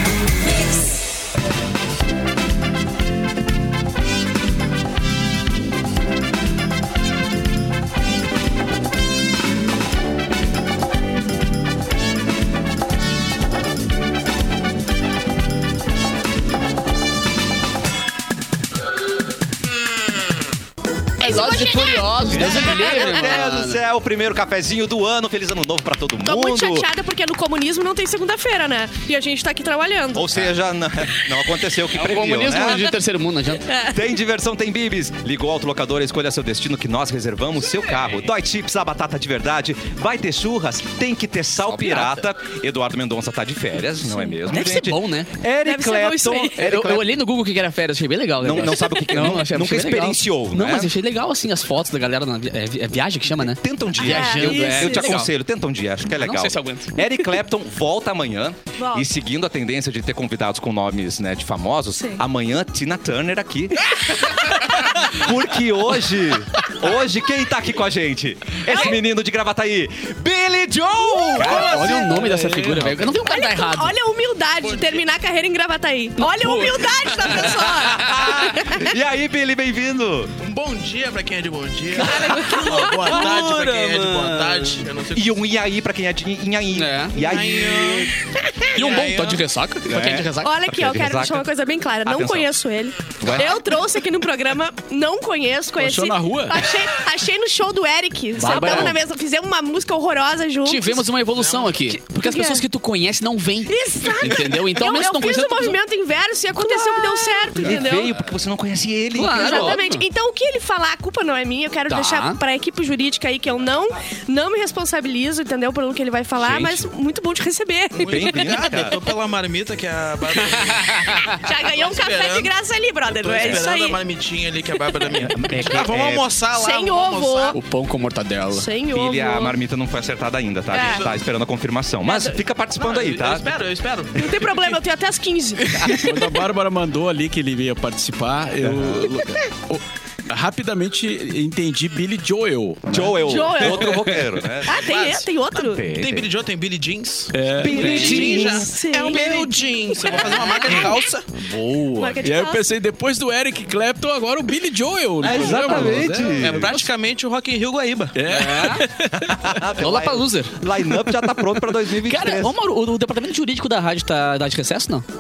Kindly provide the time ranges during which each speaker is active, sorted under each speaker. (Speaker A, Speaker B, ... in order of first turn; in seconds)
Speaker A: 21.2-23.8, 31.9-33.6, 41.6-42.2, 44.5-45.3, 46.5-55.3, 56.1-57.0, 71.3-73.9, 76.2-78.2, 82.0-84.8, 86.7-87.1, 88.7-90.5, 98.3-99.0, 100.6-105.8, 106.5-107.7, 109.1-110.0, 111.9-112.4, 116.4-116.9, 120.7-121.4, 127.5-128.7, 147.6-148.4, 150.4-150.8, 151.4-152.2, 155.3-156.0, 156.6-156.9, 158.2-158.8, 159.8-160.6, 162.0-165.1
Speaker B: 21.2-23.2, 26.2-30.4, 33.6-34.0, 45.6-46.5, 54.0-55.1, 58.8-59.0, 61.9-62.2, 68.7-69.0, 71.0-71.6, 73.2-78.9, 82.5-83.2, 90.4-101.0, 102.1-102.6, 103.7-108.1, 109.3-118.5, 121.4-124.0, 125.1-125.6, 126.5-127.6, 128.5-129.6, 130.7-131.1, 132.0-132.3, 134.1-136.2, 143.2-143.9, 144.7-145.8, 147.8-151.0, 151.9-152.7
Speaker C: 22.2-26.9, 30.1-33.0, 33.9-47.1, 48.4-50.9, 53.4-72.0, 77.9-80.3, 85.1-88.1, 89.8-91.5, 92.0-92.5, 93.2-93.7, 98.4-98.9, 107.5-109.8, 118.0-119.0, 125.2-126.3, 128.9-133.5, 138.6-139.2, 142.9-144.9, 145.6-146.3, 147.6-148.7, 155.2-156.7, 159.1-162.5
Speaker D: 71.5-73.1, 95.8-96.7, 135.8-144.4, 147.3-147.8, 151.7-156.4, 158.2-159.5
Speaker E: 74.6-75.0, 80.4-85.4, 87.1-88.1, 88.7-89.4, 101.3-101.8, 108.0-108.3, 118.0-122.5, 123.1-127.6, 130.7-131.1, 132.8-134.8, 144.7-151.3, 155.4-158.2